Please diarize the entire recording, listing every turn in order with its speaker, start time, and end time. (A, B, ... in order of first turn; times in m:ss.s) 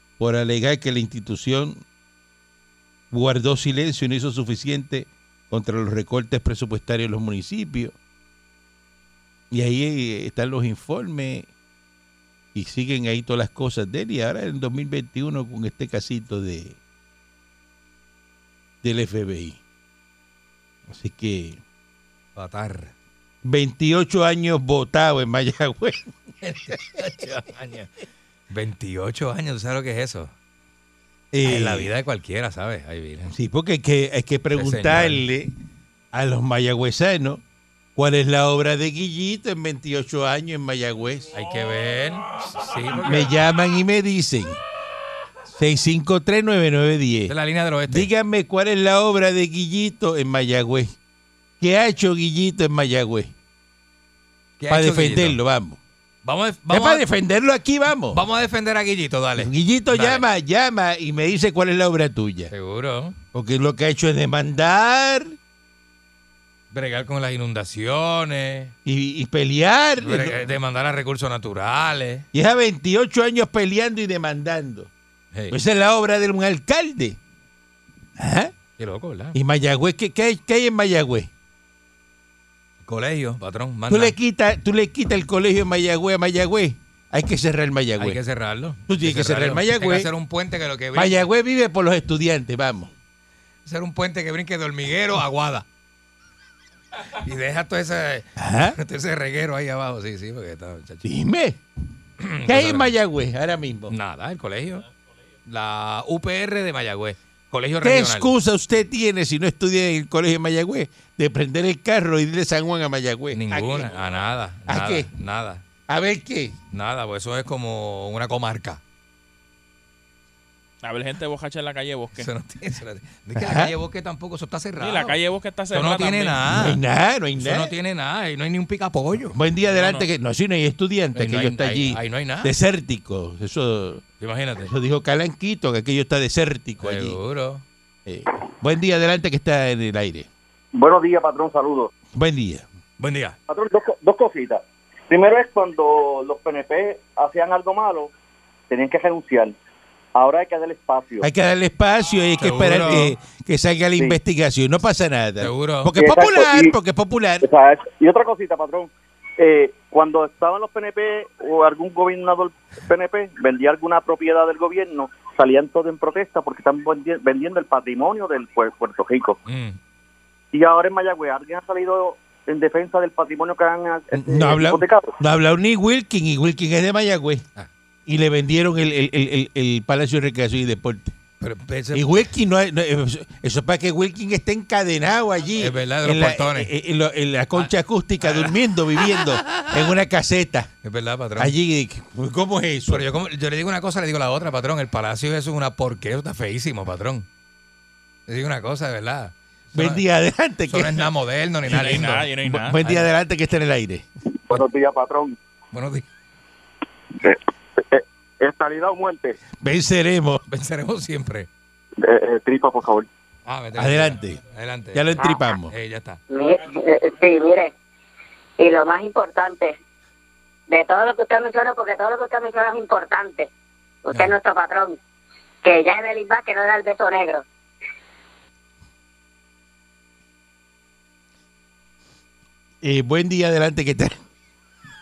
0:00.2-0:01.8 A
0:03.1-0:07.9 A
0:09.5-0:11.5 A
0:12.5-0:16.8 A
0:18.8-0:19.6 A
0:20.9-0:21.6 A
0:22.4-0:22.9 B
0:23.4-0:26.1 A
0:26.4-0:27.9 B
0:28.5-0:30.3 B
0:31.3-0:31.9 A
0:31.4-0:33.3 B
0:33.3-0:35.5 A
0:34.5-0:35.2 B
0:36.1-0:37.4 A
0:38.0-0:41.3 A
0:41.3-0:43.3 B
0:42.9-0:44.6 A
0:45.5-0:47.3 A
0:47.3-0:48.1 B
0:47.9-0:50.9 A
0:51.6-0:53.3 A
0:54.6-0:55.4 B
0:54.7-0:55.8 A
0:56.2-0:57.0 B
0:56.7-0:58.2 A
0:58.1-1:00.2 B
0:59.4-1:02.5 A
1:02.5-1:03.2 B
1:03.3-1:05.3 A
1:06.7-1:08.7 B
1:08.8-1:10.4 A
1:10.0-1:12.3 B
1:12.3-1:14.9 A
1:15.5-1:17.2 A
1:18.2-1:18.5 A
1:18.8-1:19.4 B
1:19.3-1:21.3 A
1:22.8-1:24.1 B
1:23.9-1:28.2 A
1:28.0-1:31.2 B
1:28.9-1:30.1 A
1:30.9-1:32.9 A
1:33.6-1:35.6 B
1:37.1-1:41.0 B
1:38.4-1:38.8 A
1:41.0-1:41.6 A
1:42.2-1:42.9 B
1:42.4-1:43.9 A
1:43.9-1:44.8 B
1:45.4-1:48.3 B
1:47.8-1:53.9 A
1:53.3-1:55.6 B
1:54.6-1:55.1 A
1:55.9-1:56.6 A
1:56.7-1:58.8 B
2:00.8-2:02.3 C
2:02.2-2:05.2 B
2:03.4-2:03.7 A
2:04.8-2:06.4 C
2:05.7-2:06.8 B
2:06.5-2:07.7 A
2:07.4-2:09.4 B
2:09.3-2:14.0 A
2:09.7-2:10.0 C
2:11.1-2:12.5 B
2:14.2-2:14.7 B
2:14.6-2:17.2 A
2:16.8-2:17.6 B
2:18.0-2:20.3 A
2:20.7-2:21.9 D
2:22.1-2:22.6 A
2:23.0-2:23.4 B
2:23.5-2:28.1 D
2:28.7-2:29.5 D
2:30.1-2:31.3 D
2:31.2-2:37.4 A
2:32.4-2:33.2 B
2:35.4-2:35.9 B
2:35.9-2:36.7 D
2:37.4-2:49.4 D
2:49.4-2:49.8 B
2:50.5-2:55.1 D
2:54.1-2:57.4 A
2:58.0-3:01.1 A
3:01.4-3:02.2 B
3:01.9-3:10.7 A
3:05.6-3:06.7 B
3:07.5-3:09.7 B
3:10.8-3:11.5 B
3:11.4-3:13.0 A
3:12.9-3:17.3 B
3:18.3-3:20.0 B
3:19.7-3:21.1 A
3:20.7-3:23.1 B
3:21.7-3:22.8 C
3:21.8-3:24.0 A
3:24.5-3:25.4 D
3:25.7-3:26.0 B
3:27.2-3:29.4 D
3:29.6-3:30.4 A
3:30.5-3:31.5 B
3:32.0-3:33.1 D
3:33.4-3:36.2 B
3:33.8-3:34.4 A
3:34.9-3:35.7 A
3:36.3-3:37.7 E
3:38.6-3:39.7 E
3:40.7-3:43.5 E
3:44.0-3:45.0 E
3:45.6-3:47.4 E
3:52.8-3:54.2 A